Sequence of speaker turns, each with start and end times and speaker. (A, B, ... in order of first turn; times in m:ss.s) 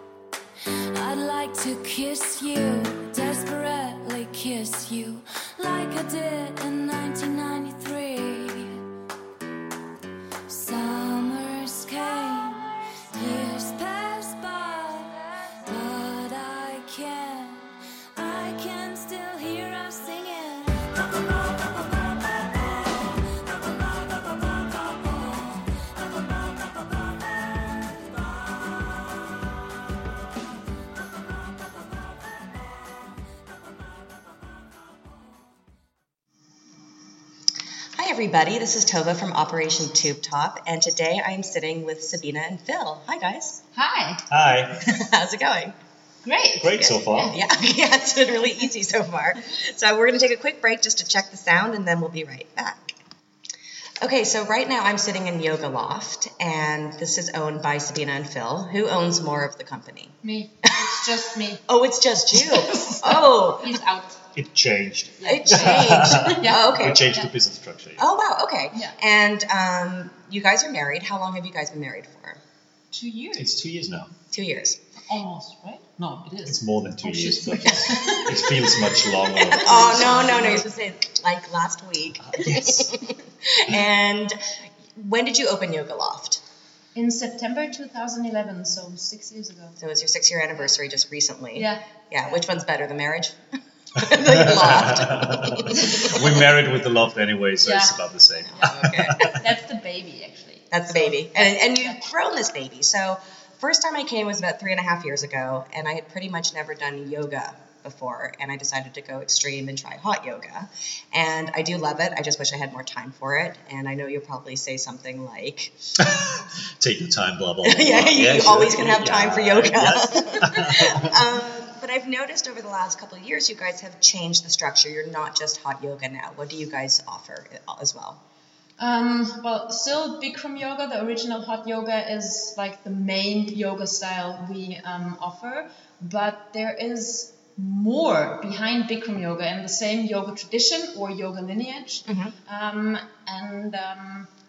0:00.6-0:08.8 A
0:10.5-0:21.1 A
0:23.0-0:24.2 A
0:24.7-0:25.7 A
0:37.9-0:43.6 B
0:43.7-0:44.2 C
0:44.3-0:45.0 D
0:44.8-0:45.7 B
0:46.2-0:47.4 C
0:46.6-0:47.4 D
0:46.8-0:52.9 B
0:54.0-1:00.2 B
1:00.2-1:01.6 C
1:01.7-1:03.8 B
1:02.4-1:04.2 C
1:04.3-1:08.0 D
1:05.2-1:07.3 C
1:05.2-1:07.1 B
1:08.0-1:12.4 B
1:12.9-1:13.5 C
1:13.4-1:14.1 D
1:14.3-1:14.8 B
1:15.0-1:19.5 C
1:16.4-1:20.7 D
1:17.7-1:18.2 B
1:19.4-1:26.4 B
1:22.2-1:23.0 D
1:26.9-1:29.8 C
1:29.8-1:33.4 B
1:31.5-1:31.8 C
1:33.9-1:36.4 B
1:34.0-1:39.4 D
1:35.7-1:36.1 C
1:37.6-1:38.0 C
1:38.4-1:39.4 B
1:38.5-1:42.1 C
1:40.7-1:55.7 B
1:56.0-2:01.3 D
1:57.6-2:08.2 B
2:08.8-2:24.3 C
2:22.0-2:22.3 B